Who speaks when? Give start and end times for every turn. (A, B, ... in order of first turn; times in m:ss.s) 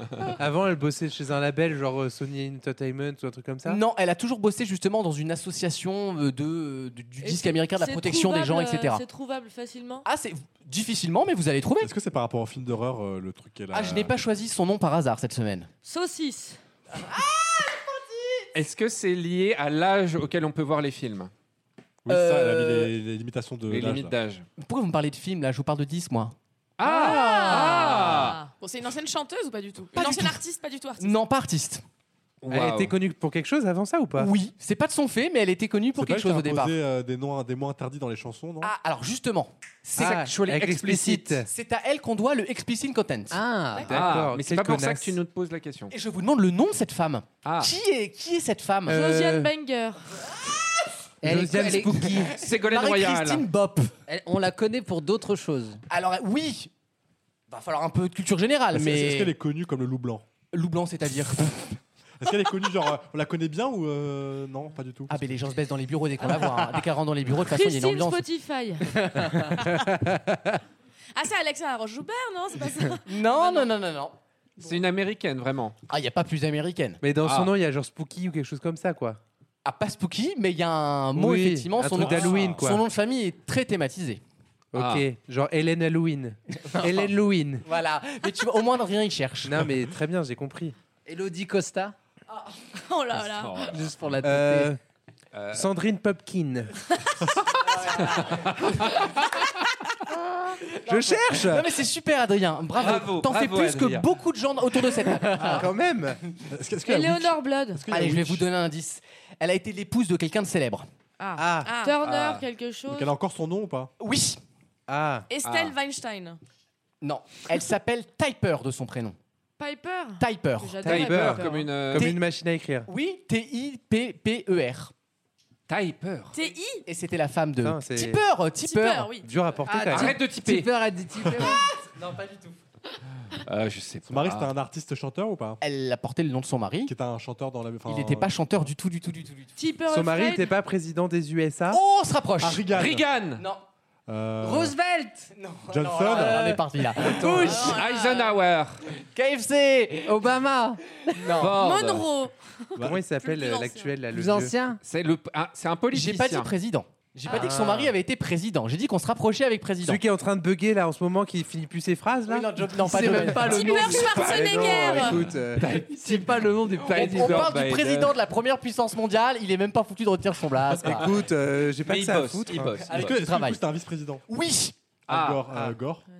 0:00.4-0:03.8 A
0:03.6-0:09.0 B
0:07.2-0:10.0 C
0:10.0-0:11.9 B
0:11.8-0:14.1 D
0:13.7-0:15.7 B
0:15.8-0:16.6 C
0:16.9-0:18.5 B
0:18.5-0:21.3 E
0:22.0-0:24.1 D
0:22.1-0:22.9 B
0:23.7-0:24.4 E
0:24.6-0:26.3 B
0:26.8-0:28.4 E
0:26.9-0:31.2 F
0:27.1-0:28.4 C
0:29.9-0:30.4 B
0:31.0-0:31.8 B
0:32.4-0:32.9 E
0:32.5-0:34.3 A
0:34.2-0:36.8 B
0:35.9-0:38.7 D
0:38.6-0:40.4 B
0:40.0-0:41.2 E
0:40.0-0:41.5 A
0:40.9-0:43.4 B
0:43.3-0:44.0 G
0:43.8-0:45.2 A
0:43.9-0:45.9 E
0:45.9-0:49.1 B
0:47.4-0:47.7 E
0:48.9-0:49.5 A
0:48.9-0:50.0 C
0:51.2-0:52.2 G
0:51.2-0:52.3 A
0:51.2-0:53.9 B
0:52.4-0:53.4 E
0:54.1-0:55.8 G
0:55.9-0:56.7 B
0:57.5-0:59.3 B
0:58.7-1:00.2 D
1:00.5-1:01.8 B
1:02.2-1:05.2 D
1:05.1-1:08.2 B
1:07.4-1:09.0 C
1:11.1-1:13.7 F
1:13.0-1:14.1 B
1:14.6-1:15.7 E
1:15.9-1:17.0 B
1:17.0-1:19.2 A
1:17.2-1:17.5 E
1:19.6-1:24.2 B
1:21.1-1:22.8 A
1:24.7-1:27.6 A
1:24.7-1:25.0 E
1:26.8-1:27.0 B
1:27.6-1:29.7 B
1:29.4-1:30.7 A
1:31.0-1:32.0 G
1:32.8-1:33.7 F
1:33.2-1:33.9 E
1:33.7-1:34.7 G
1:34.2-1:34.8 A
1:35.3-1:35.7 E
1:35.5-1:36.7 A
1:37.6-1:38.8 B
1:38.0-1:39.2 E
1:40.7-1:45.7 B
1:40.8-1:41.7 A
1:42.8-1:44.0 E
1:45.3-1:46.2 A
1:46.5-1:48.5 D
1:46.8-1:47.8 C
1:47.9-1:50.9 B
1:51.2-1:53.1 C
1:51.4-1:51.7 A
1:51.6-1:52.0 F
1:52.0-1:52.4 E
1:52.9-1:53.9 D
1:54.0-1:54.4 B
1:54.9-1:55.3 A
1:55.3-1:56.4 F
1:55.4-1:55.8 E
1:57.0-1:59.2 B
1:59.6-2:01.7 C
2:00.2-2:01.0 B
2:00.8-2:02.1 E
2:00.9-2:02.9 A
2:01.3-2:01.6 F
2:01.9-2:02.2 B
2:02.8-2:04.9 B
2:05.7-2:06.4 E
2:06.3-2:06.8 F
2:06.8-2:09.1 B
2:07.6-2:08.2 A
2:08.6-2:09.3 F
2:09.2-2:10.2 A
2:09.6-2:11.6 G
2:09.8-2:10.7 E
2:12.0-2:12.4 B
2:13.3-2:14.5 E
2:14.0-2:15.6 D
2:15.6-2:16.9 B
2:16.8-2:18.6 D
2:17.8-2:19.5 B
2:19.6-2:20.6 C
2:19.9-2:21.8 A
2:21.7-2:22.7 B
2:22.4-2:23.0 D
2:22.7-2:23.4 E
2:24.1-2:24.8 D
2:24.4-2:25.3 G
2:25.3-2:27.9 B
2:25.7-2:26.6 D
2:27.0-2:27.5 A
2:27.4-2:28.4 F
2:27.4-2:28.8 E
2:29.1-2:30.4 B
2:30.0-2:30.8 G
2:31.2-2:31.6 B
2:31.4-2:32.1 E
2:31.6-2:34.0 F
2:32.8-2:34.6 A
2:34.1-2:34.8 G
2:34.8-2:36.5 E
2:35.9-2:40.0 B
2:37.3-2:37.9 A
2:39.8-2:45.7 A
2:42.2-2:44.2 B
2:43.3-2:45.3 F
2:43.3-2:44.1 G
2:43.9-2:48.1 E
2:45.9-2:47.5 G
2:46.0-2:51.2 B
2:50.7-2:52.8 A
2:51.8-2:53.2 E
2:52.8-2:53.6 B
2:52.9-2:54.2 D
2:54.3-2:54.8 B
2:55.1-2:56.0 D
2:55.1-2:55.4 E